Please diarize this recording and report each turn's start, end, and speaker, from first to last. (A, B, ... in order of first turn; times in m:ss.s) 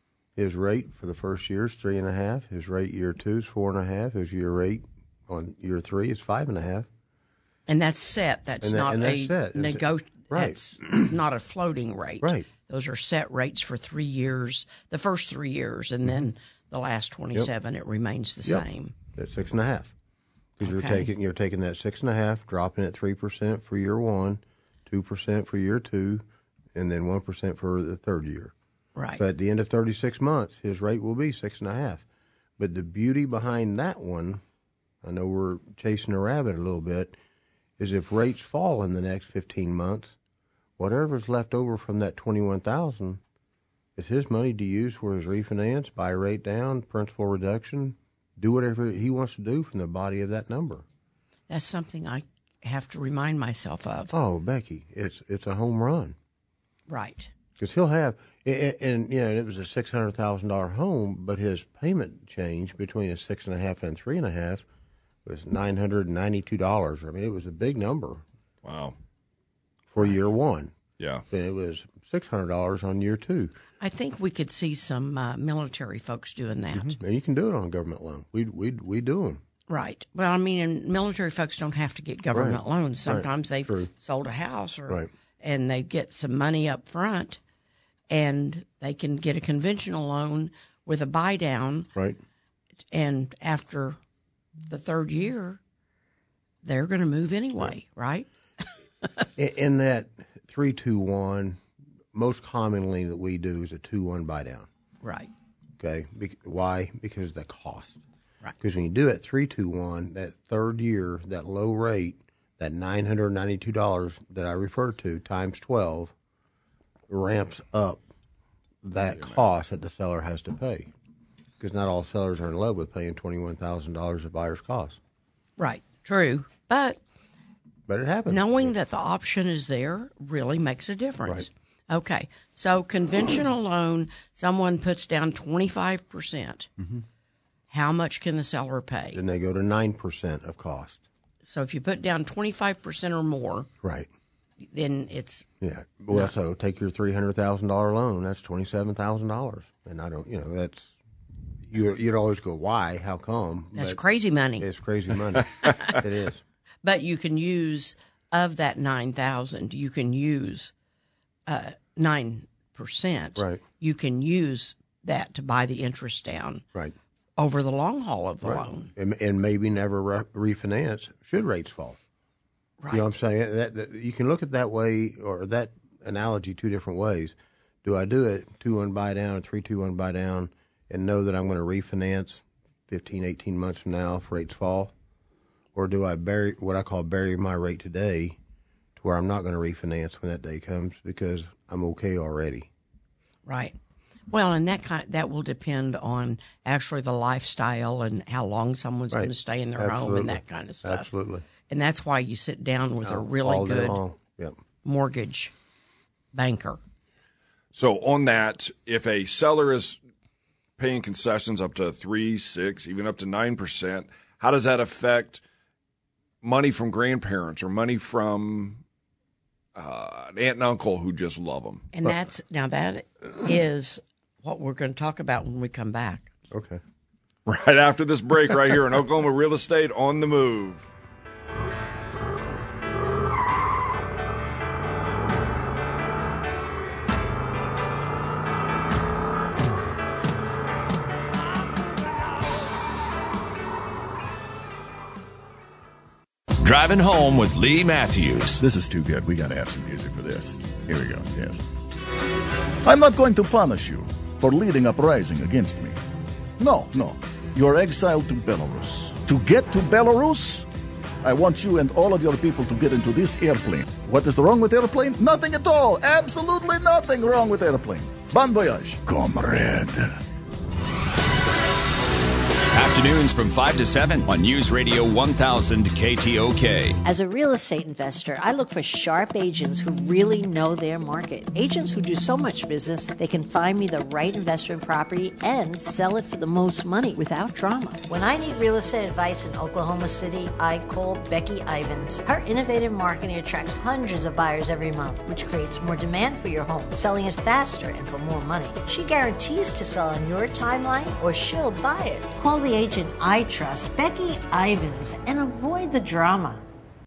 0:00.4-0:06.9 A
0:07.7-0:19.0 B
0:08.6-0:10.6 A
0:12.2-0:12.5 A
0:18.5-0:19.9 A
0:20.6-0:28.5 A
0:20.6-0:21.1 B
0:29.0-0:29.2 B
0:29.1-0:32.0 A
0:32.6-0:34.4 A
0:35.0-0:37.2 A
0:37.8-0:40.2 A
0:40.8-0:43.2 A
0:44.0-0:50.8 A
0:51.5-0:54.1 B
0:54.1-0:56.2 A
0:56.9-0:57.3 B
0:57.6-1:04.6 A
1:05.2-1:08.2 A
1:08.6-1:09.0 C
1:09.9-1:10.8 A
1:11.0-1:11.2 C
1:11.3-1:13.6 A
1:13.8-1:17.0 B
1:16.7-1:19.4 A
1:19.7-1:27.4 B
1:22.3-1:23.9 A
1:28.1-1:31.9 B
1:32.9-1:34.0 B
1:34.6-1:35.6 B
1:36.6-1:38.6 B
1:39.4-1:44.7 A
1:45.0-1:45.3 B
1:45.8-1:48.0 A
1:48.6-1:56.1 A
1:57.1-1:58.0 A
1:58.8-2:00.9 A
2:01.6-2:05.0 A
2:05.6-2:07.0 B
2:07.9-2:08.7 A
2:08.3-2:16.7 B
2:17.7-2:19.2 B
2:19.1-2:21.0 A
2:21.4-2:23.7 B
2:23.8-2:24.1 A
2:24.6-2:25.5 B
2:25.6-2:31.0 A
2:31.6-2:34.0 A
2:33.8-2:34.7 B
2:34.6-2:36.4 A
2:36.8-2:40.7 B
2:41.5-2:46.6 B
2:43.4-2:43.6 A
2:47.4-2:48.9 B
2:48.4-2:52.0 A
2:52.9-3:04.9 A
3:05.7-3:08.4 A
3:09.0-3:12.7 A
3:13.5-3:13.8 B
3:14.3-3:21.1 B
3:19.1-3:21.5 A
3:21.7-3:24.0 B
3:23.0-3:24.6 A
3:24.8-3:25.5 B
3:26.3-3:26.8 B
3:27.7-3:30.0 C
3:30.8-3:35.4 C
3:36.4-3:38.8 C
3:39.8-3:41.9 C
3:41.9-3:46.3 B
3:46.5-3:46.8 A
3:47.5-3:50.9 C
4:06.6-4:08.6 D
4:08.6-4:11.6 E
4:12.8-4:16.0 E
4:16.6-4:20.7 E
4:21.2-4:30.2 E
4:32.7-4:37.0 D
4:37.0-5:06.6 F